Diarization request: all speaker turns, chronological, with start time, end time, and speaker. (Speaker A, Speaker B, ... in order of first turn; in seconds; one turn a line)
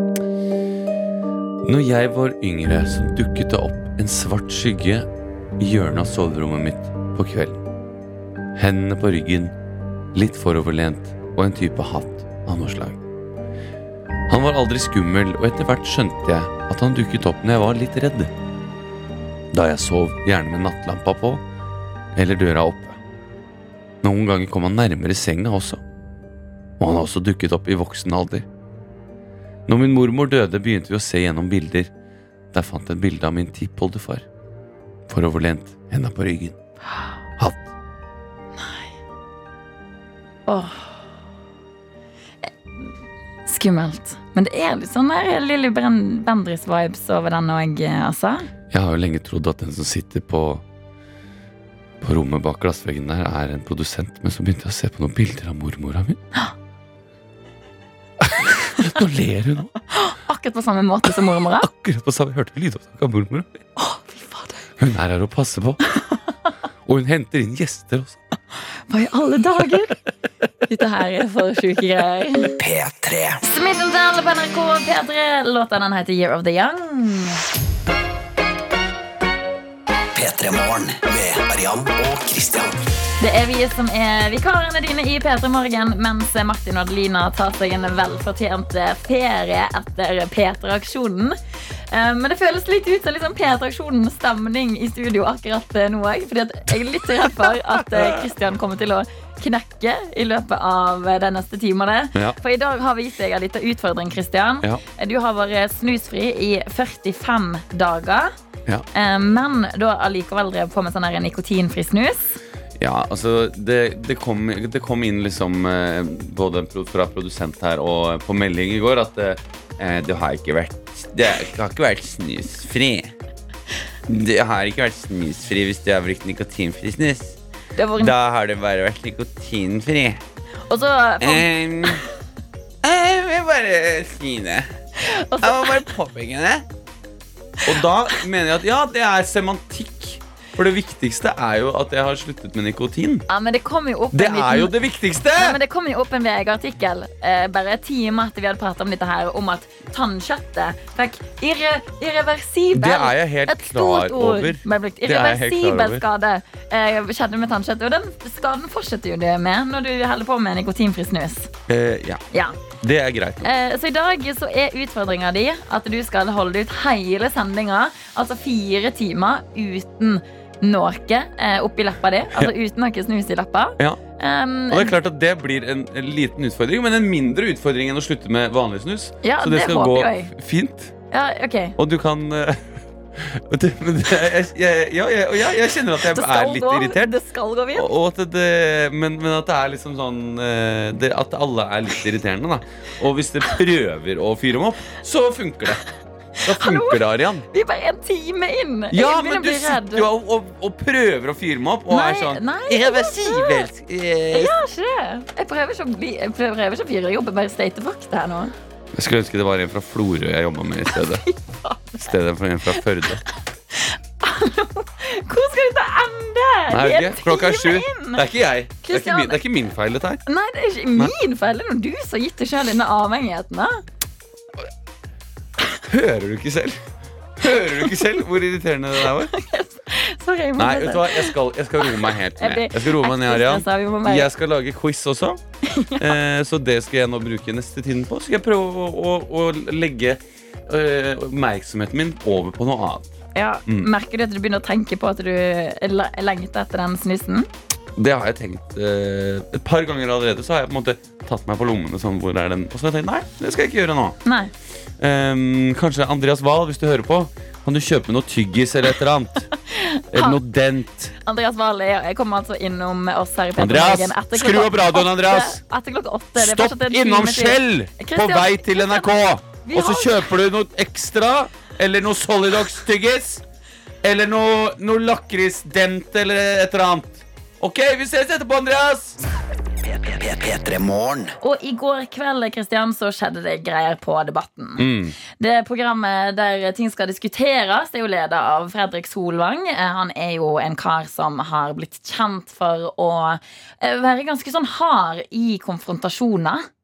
Speaker A: 1.6-5.1
Speaker A: 5.6-7.6
Speaker A: 8.6-9.5
Speaker A: 10.1-13.0
Speaker A: 14.3-18.3
Speaker A: 19.5-21.4
Speaker A: 22.1-23.0
Speaker A: 24.0-25.8
Speaker A: 26.8-28.4
Speaker A: 29.7-31.9
Speaker A: 32.5-34.2
Speaker A: 35.1-36.5
Speaker B: 38.5-38.9
Speaker B: 40.5-40.9
Speaker B: 43.5-48.5
Speaker A: 48.7-50.6
Speaker A: 52.0-56.2
Speaker A: 58.2-59.7
Speaker B: 59.9-61.7
Speaker A: 61.6-63.6
Speaker B: 63.8-64.7
Speaker A: 64.8-65.8
Speaker A: 66.8-68.2
Speaker B: 68.9-70.0
Speaker B: 70.7-72.5
Speaker C: 72.6-73.4
Speaker B: 73.4-77.4
Speaker C: 80.1-82.8
Speaker B: 83.2-91.4
Speaker B: 91.9-108.3
Speaker B: 108.9-112.4
Speaker A: 112.8-123.1
Speaker A: 124.1-127.3
Speaker B: 127.8-128.1
Speaker A: 128.0-130.2
Speaker B: 130.7-132.0
Speaker A: 131.2-132.0
Speaker A: 132.8-134.7
Speaker B: 135.0-135.8
Speaker A: 135.4-136.7
Speaker A: 137.6-143.2
Speaker B: 143.3-144.7
Speaker A: 144.1-145.6
Speaker B: 145.3-161.5
Speaker A: 152.7-156.0
Speaker A: 161.7-162.2
Speaker A: 162.8-163.4
Speaker B: 163.4-174.9
Speaker A: 174.7-180.9
Speaker B: 179.2-180.3
Speaker B: 181.1-181.8
Speaker A: 181.8-182.6
Speaker A: 183.2-187.1
Speaker B: 186.1-187.9
Speaker A: 187.7-195.8
Speaker B: 196.4-200.1
Speaker A: 196.4-197.4
Speaker A: 198.9-204.5
Speaker B: 201.9-203.7
Speaker B: 204.3-208.5
Speaker A: 208.9-211.2
Speaker B: 210.9-212.1
Speaker A: 212.1-213.2
Speaker B: 213.7-218.2
Speaker A: 216.7-220.2
Speaker B: 218.8-219.4
Speaker B: 220.2-223.8
Speaker A: 225.9-226.8
Speaker A: 227.4-229.3
Speaker B: 229.2-234.3
Speaker A: 230.6-235.4
Speaker B: 235.6-236.1
Speaker A: 236.0-243.1
Speaker B: 243.3-247.5
Speaker A: 248.0-254.2
Speaker B: 254.2-254.5
Speaker A: 255.0-259.5
Speaker B: 259.6-260.4
Speaker A: 260.1-261.1
Speaker B: 261.2-269.1
Speaker A: 263.6-265.6
Speaker A: 266.4-273.4
Speaker B: 269.6-270.2
Speaker A: 274.0-279.2
Speaker C: 279.8-281.3
Speaker B: 281.4-296.6
Speaker A: 284.8-285.1